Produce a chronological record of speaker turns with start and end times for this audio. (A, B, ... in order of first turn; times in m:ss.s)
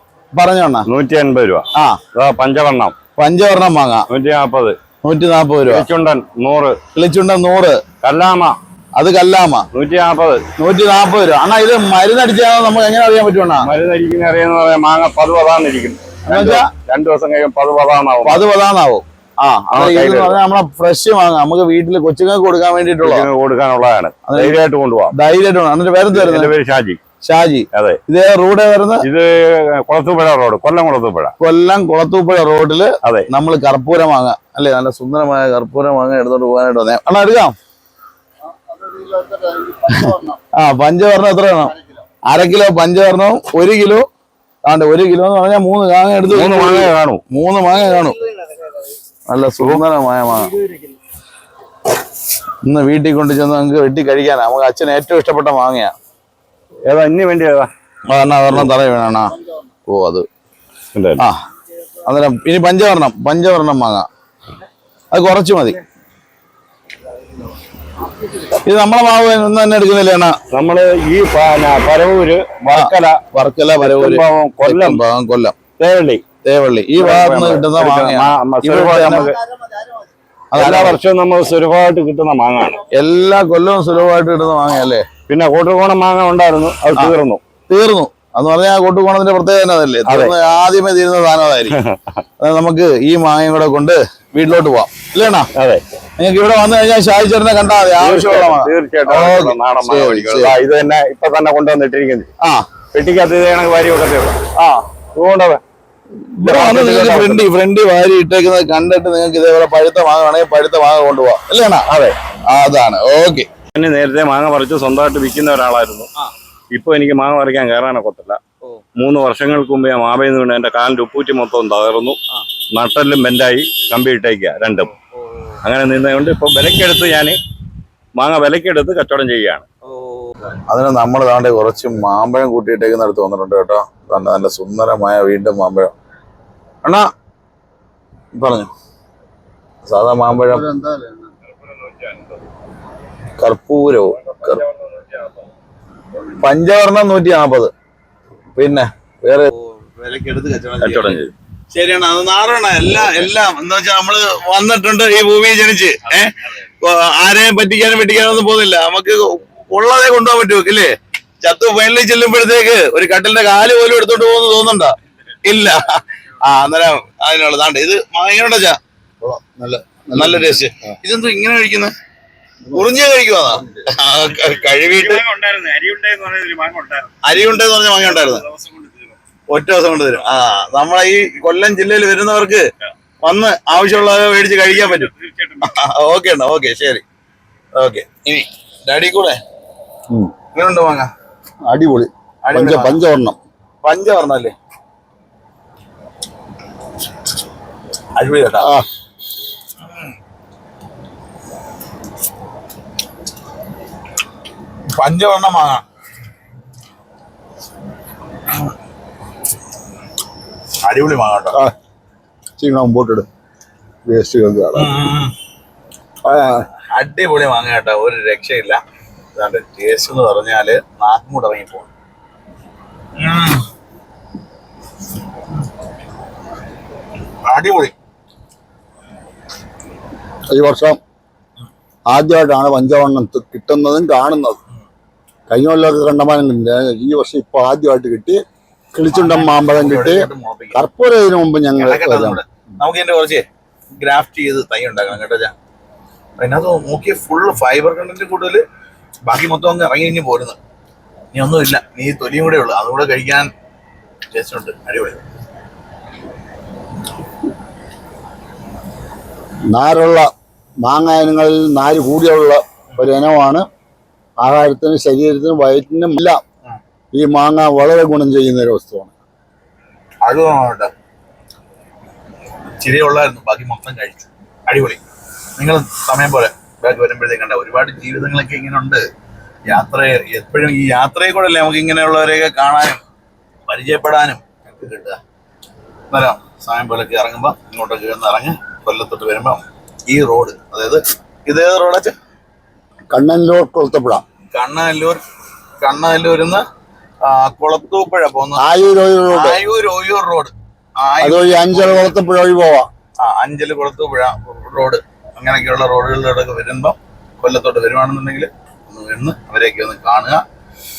0:00.4-0:00.9 A
0:00.9-0:03.0 B
0:01.8-0:02.0 A
0:03.2-0:04.1 A
0:04.1-0:04.8 B
0:05.0-0:05.9 A
0:05.7-0:06.8 B
0:07.0-0:07.8 A
0:08.0-0:08.6 B
0:09.0-0:09.7 A
0:09.7-0:10.4 B
0:10.6-0:13.7 A
0:13.6-0:18.5 B
0:16.3-0:16.7 A
0:18.2-0:23.3 A
0:19.7-0:20.4 B
0:23.0-0:25.1 B
0:24.3-0:24.6 A
0:25.1-0:26.5 A
0:26.1-0:27.0 B
0:27.2-0:29.0 A
0:29.0-0:31.4 B
0:31.4-0:37.5 A
0:38.6-0:40.4 C
0:40.0-0:41.8 A
0:42.3-0:44.1 A
0:44.7-0:48.2 A
0:46.3-0:47.2 B
0:49.3-0:50.5 A
0:52.6-0:55.9 A
0:56.9-0:57.7 B
0:58.1-0:59.4 A
0:59.9-1:00.3 A
1:01.0-1:01.2 B
1:02.0-1:04.1 A
1:05.1-1:05.8 A
1:08.4-1:10.4 A
1:10.5-1:13.2 B
1:12.7-1:15.6 A
1:13.8-1:15.0 B
1:15.8-1:16.2 B
1:16.4-1:19.3 A
1:17.0-1:19.4 B
1:20.5-1:21.0 A
1:20.6-1:22.8 B
1:22.9-1:25.1 A
1:25.3-1:27.4 B
1:27.7-1:31.8 A
1:30.1-1:30.4 B
1:31.8-1:32.2 B
1:32.4-1:35.5 A
1:35.6-1:35.8 B
1:36.2-1:40.6 A
1:38.0-1:42.3 B
1:42.4-1:42.7 A
1:42.9-1:44.4 B
1:44.6-1:44.8 A
1:45.2-1:45.6 B
1:46.4-1:51.9 A
1:46.4-1:47.5 B
1:51.9-1:52.2 B
1:52.5-1:53.5 A
1:53.7-1:56.1 B
1:56.8-1:58.4 B
1:59.0-2:02.2 B
2:02.8-2:04.9 B
2:05.6-2:07.4 B
2:08.2-2:09.6 B
2:10.7-2:15.9 A
2:18.3-2:18.7 A
2:19.9-2:20.7 A
2:20.4-2:21.3 C
2:21.5-2:22.4 B
2:23.4-2:24.6 A
2:24.2-2:25.5 B
2:26.4-2:27.7 A
2:28.6-2:31.2 A
2:30.8-2:31.3 B
2:31.7-2:48.8 A
2:49.2-2:50.9 C
2:50.1-2:51.9 A
2:52.7-2:55.2 A
2:54.4-2:57.4 B
2:57.2-2:58.4 A
2:58.0-2:59.2 B
2:59.5-3:02.6 A
3:03.2-3:05.1 A
3:04.7-3:05.8 B
3:05.6-3:07.0 A
3:07.8-3:09.4 A
3:10.5-3:11.1 A
3:11.7-3:13.4 C
3:12.4-3:13.0 A
3:13.8-3:14.5 A
3:18.2-3:18.7 A
3:18.6-3:18.9 C
3:25.0-3:25.8 A
3:30.8-3:31.6 A
3:32.6-3:33.3 C
3:34.1-3:35.0 C
3:34.8-3:35.3 A
3:36.3-3:36.6 C
3:36.8-3:38.8 A
3:39.4-3:41.9 A
3:43.2-3:43.6 A
3:47.5-3:47.9 A
3:50.5-3:51.0 C
3:52.1-3:54.6 C
3:55.5-3:58.4 C
3:58.9-4:02.4 C
3:59.1-4:00.8 A
4:01.8-4:05.5 A
4:06.4-4:08.6 A
4:09.3-4:10.6 A
4:11.3-4:13.5 A
4:14.3-4:15.2 A
4:19.7-4:20.3 C
4:20.8-4:23.7 C
4:24.4-4:26.4 C
4:27.1-4:29.1 C
4:30.2-4:30.9 A
4:32.8-4:35.0 A
4:35.6-4:39.0 A
4:39.7-4:43.0 A
4:43.7-4:45.2 A
4:46.1-4:52.2 A
4:53.1-4:54.2 C
4:54.5-4:55.2 A
4:55.8-4:56.6 A
4:57.2-4:58.6 A
4:58.6-4:59.6 C
4:59.3-5:02.1 A
5:01.2-5:02.9 C
5:03.2-5:10.4 A